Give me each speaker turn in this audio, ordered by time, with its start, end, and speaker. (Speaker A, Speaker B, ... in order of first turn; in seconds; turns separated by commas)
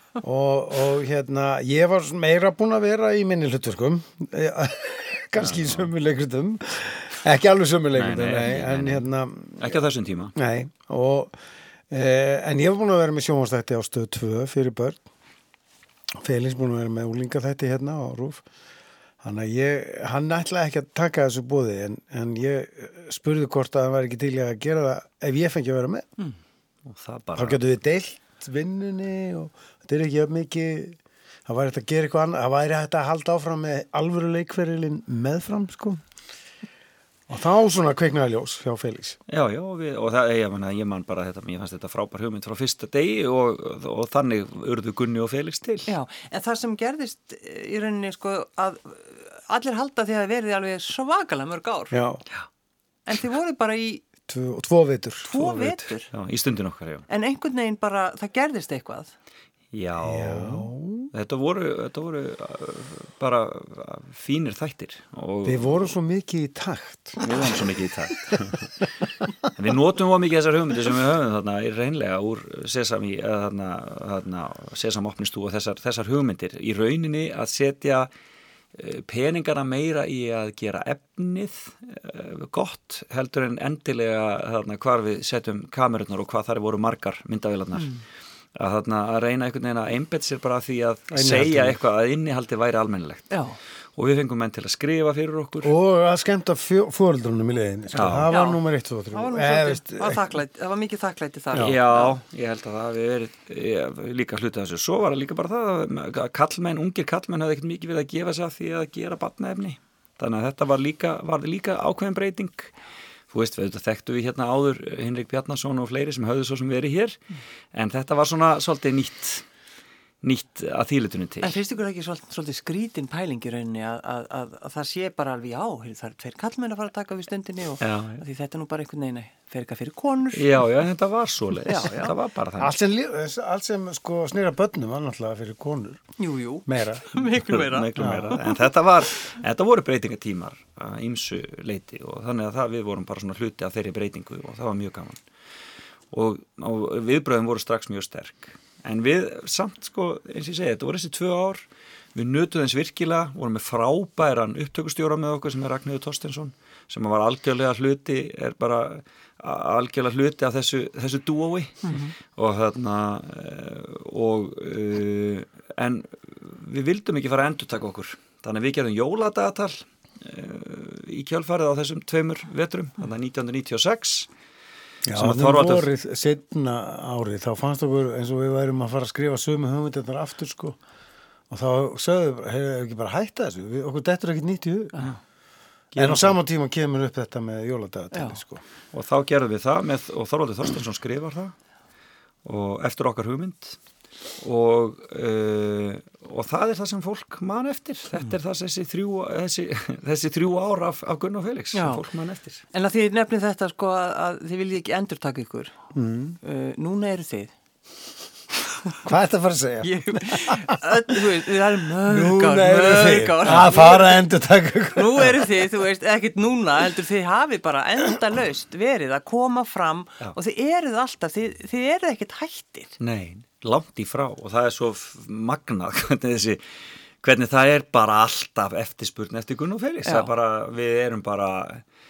Speaker A: 0.2-9.8, Speaker B: 5.4-5.8, Speaker B: 7.9-9.0, Speaker B: 9.6-10.3, Speaker A: 10.4-11.3, Speaker A: 11.9-15.0, Speaker A: 16.2-18.4, Speaker A: 19.2-26.1, Speaker B: 26.9-27.6, Speaker A: 27.4-36.0, Speaker A: 37.3-39.2, Speaker B: 39.3-45.9, Speaker C: 45.9-51.9, Speaker A: 51.9-52.2, Speaker C: 53.1-54.0, Speaker A: 54.3-55.9, Speaker C: 55.2-56.1, Speaker B: 56.1-57.0, Speaker C: 57.1-59.1, Speaker B: 59.7-65.9, Speaker A: 60.0-61.1, Speaker A: 65.5-67.6, Speaker B: 67.2-68.8, Speaker B: 69.5-78.1, Speaker B: 78.7-88.0, Speaker C: 87.8-88.0, Speaker B: 88.6-93.3, Speaker A: 91.1-91.8, Speaker C: 93.3-93.6, Speaker B: 94.0-95.7, Speaker A: 95.6-100.2, Speaker B: 97.9-98.3, Speaker C: 98.3-98.6, Speaker C: 99.1-102.2, Speaker B: 101.6-112.7, Speaker B: 113.3-117.2, Speaker B: 117.7-119.4, Speaker B: 120.2-121.5, Speaker C: 121.4-130.6, Speaker B: 127.8-128.2, Speaker B: 130.3-132.7, Speaker C: 131.7-132.1, Speaker A: 132.6-136.0, Speaker C: 136.2-138.4, Speaker A: 136.7-137.1, Speaker B: 137.3-145.2, Speaker A: 138.0-138.4, Speaker B: 146.1-174.3, Speaker C: 161.8-162.1, Speaker A: 175.1-180.8, Speaker B: 175.1-175.9, Speaker A: 181.5-185.1, Speaker B: 185.9-186.4, Speaker A: 186.0-188.6, Speaker C: 188.1-188.4, Speaker B: 188.9-191.5, Speaker B: 192.4-193.8, Speaker B: 194.4-202.6, Speaker C: 201.7-202.0, Speaker C: 202.7-205.8, Speaker A: 205.9-206.4, Speaker C: 206.4-207.5, Speaker A: 209.0-210.8, Speaker C: 209.8-214.2, Speaker A: 212.1-215.4, Speaker B: 213.4-213.7, Speaker C: 215.0-223.0, Speaker B: 223.0-226.6, Speaker B: 227.2-231.8, Speaker C: 230.1-230.3